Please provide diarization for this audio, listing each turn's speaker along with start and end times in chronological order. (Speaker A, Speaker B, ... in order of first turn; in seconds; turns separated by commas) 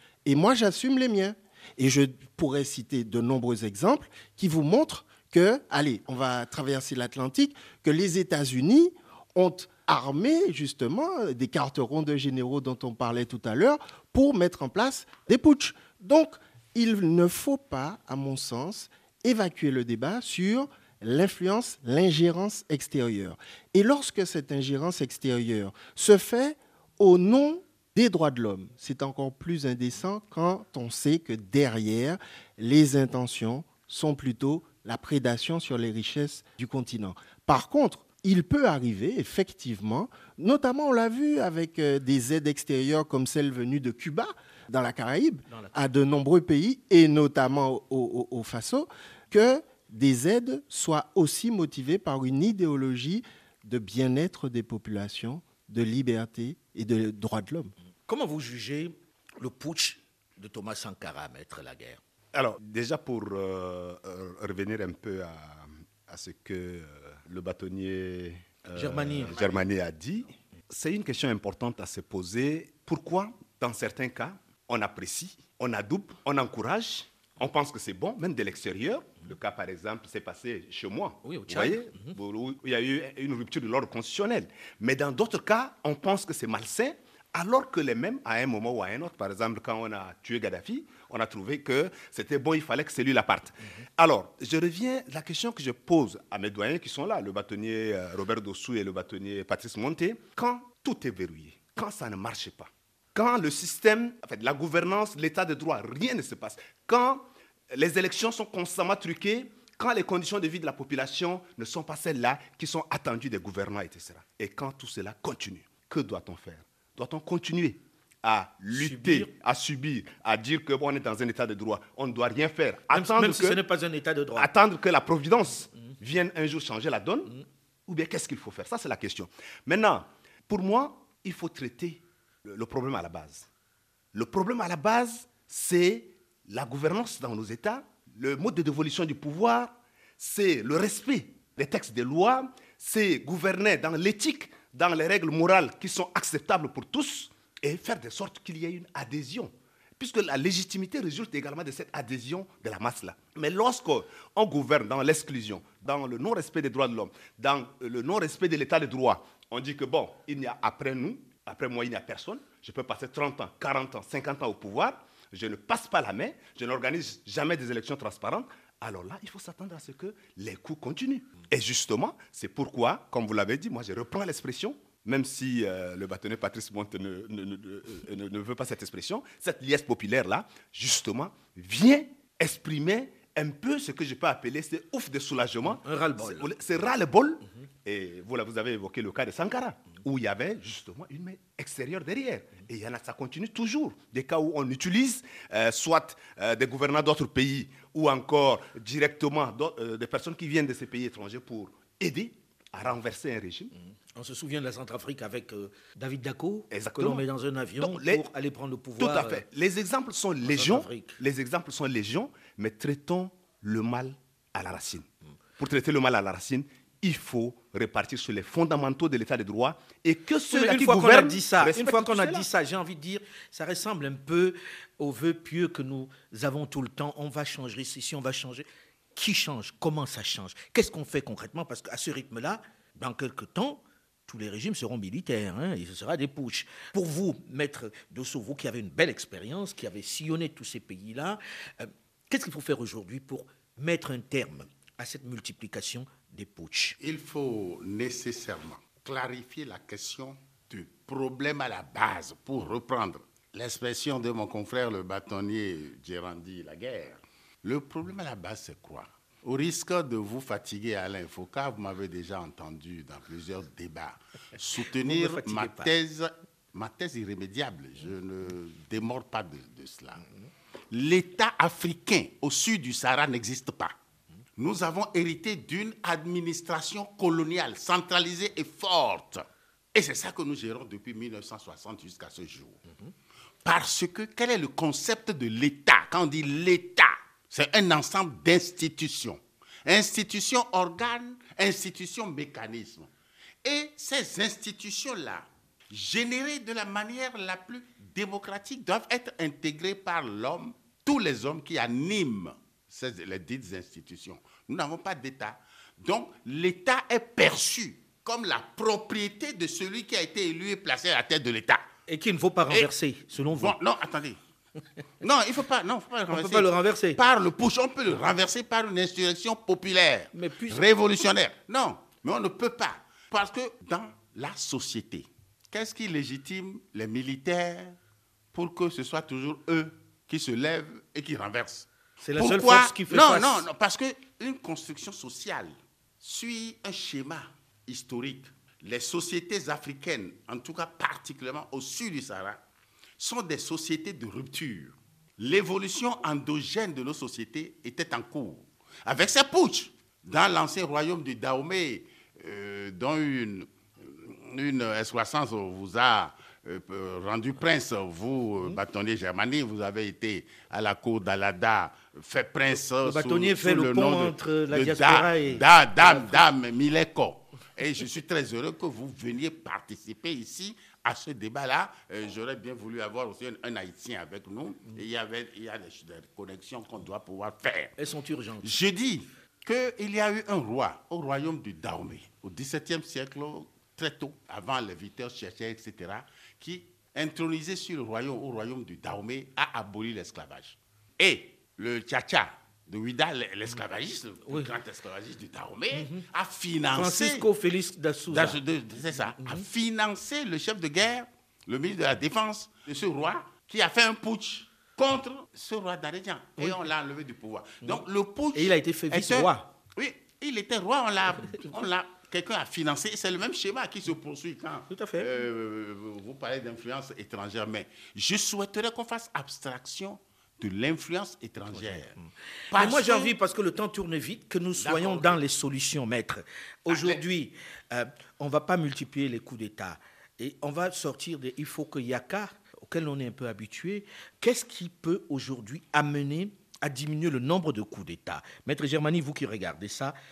Speaker A: 0.2-57.7, Speaker B: 45.5-45.8, Speaker B: 58.1-62.0, Speaker C: 62.3-123.6, Speaker B: 68.7-69.4, Speaker B: 81.2-82.2, Speaker B: 118.7-119.3, Speaker B: 122.9-124.5, Speaker C: 124.3-133.5, Speaker C: 134.1-203.7, Speaker B: 185.7-186.5, Speaker B: 204.2-209.4, Speaker C: 206.7-207.2, Speaker C: 207.8-208.2, Speaker C: 209.0-222.5, Speaker B: 210.4-211.2, Speaker B: 220.5-247.0, Speaker D: 247.0-270.2, Speaker B: 265.0-265.9, Speaker D: 270.9-273.9, Speaker D: 274.6-282.8, Speaker D: 283.6-293.1, Speaker D: 293.6-311.8, Speaker B: 312.1-313.8, Speaker D: 313.5-314.4, Speaker D: 315.2-327.9, Speaker B: 316.3-317.2, Speaker B: 320.3-320.8, Speaker D: 328.5-342.6, Speaker B: 332.2-333.6, Speaker D: 343.2-377.9, Speaker B: 363.0-366.4, Speaker B: 378.0-378.7, Speaker D: 378.6-397.5, Speaker B: 395.9-396.2, Speaker B: 396.9-398.6, Speaker D: 398.3-422.1, Speaker B: 399.4-399.6, Speaker B: 407.8-409.7, Speaker B: 414.9-415.3, Speaker B: 421.7-440.1, Speaker D: 422.7-423.3, Speaker D: 424.8-425.4, Speaker D: 426.9-427.2